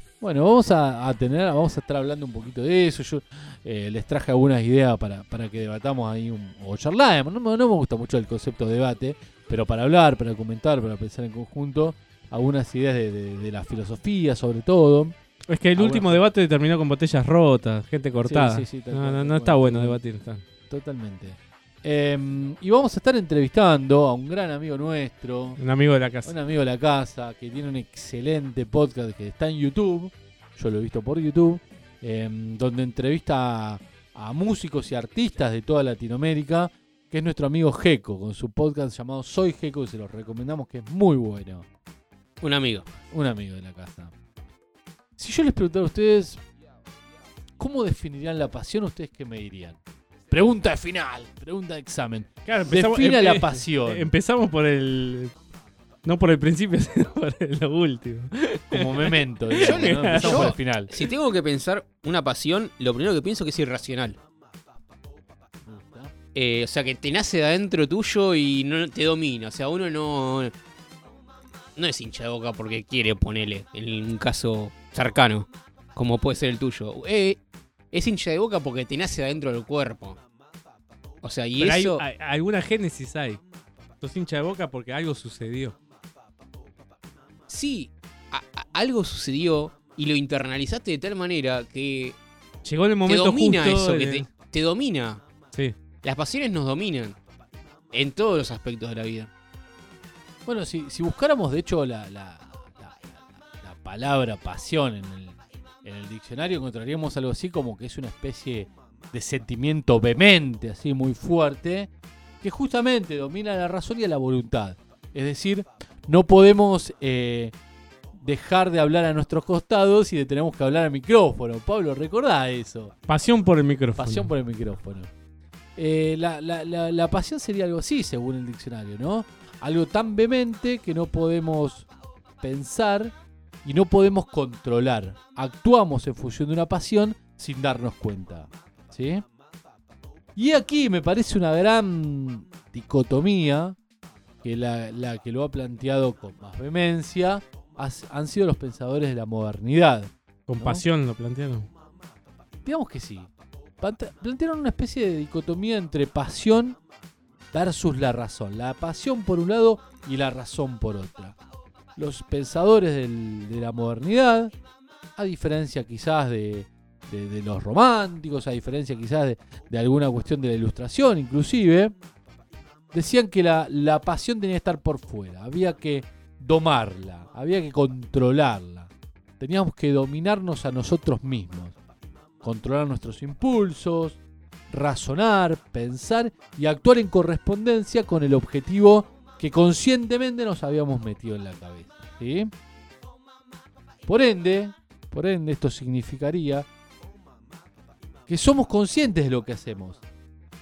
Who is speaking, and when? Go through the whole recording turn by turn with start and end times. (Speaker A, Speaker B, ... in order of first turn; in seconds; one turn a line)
Speaker A: 0.2-15.2
Speaker B: 15.5-20.4
Speaker A: 15.8-16.2
Speaker A: 18.2-20.0
Speaker A: 20.7-25.6
Speaker B: 25.6-26.4
Speaker A: 26.2-41.7
Speaker C: 42.4-42.9
Speaker A: 43.1-44.1
Speaker A: 45.2-46.4
Speaker A: 47.6-49.8
Speaker A: 50.3-54.1
Speaker B: 52.5-55.3
Speaker B: 56.0-60.5
Speaker A: 58.7-60.9
Speaker C: 59.6-64.2
Speaker A: 65.7-66.1
Speaker C: 66.3-70.5
Speaker C: 71.8-77.4
Speaker C: 77.9-80.2
Speaker C: 81.2-82.0
Speaker B: 81.6-83.4
Speaker B: 84.0-85.8
Speaker C: 87.5-92.2
Speaker B: 92.7-94.3
Speaker C: 93.1-95.2
Speaker C: 96.0-97.2
Speaker C: 97.9-99.3
Speaker A: 100.5-111.9
Speaker A: 112.4-117.5
Speaker A: 118.1-122.9
Speaker B: 123.1-124.3
Speaker A: 124.0-125.1
Speaker A: 125.8-131.9
Speaker A: 132.4-139.2
Speaker A: 140.4-143.8
Speaker A: 144.4-150.8
Speaker B: 150.5-151.7
Speaker A: 152.7-156.8
Speaker A: 157.5-161.4
Speaker A: 162.0-164.5
Speaker A: 165.2-171.9
Speaker A: 172.9-181.8
Speaker A: 182.4-184.2
Speaker A: 184.7-192.5
Speaker A: 194.1-196.7
Speaker A: 198.3-200.0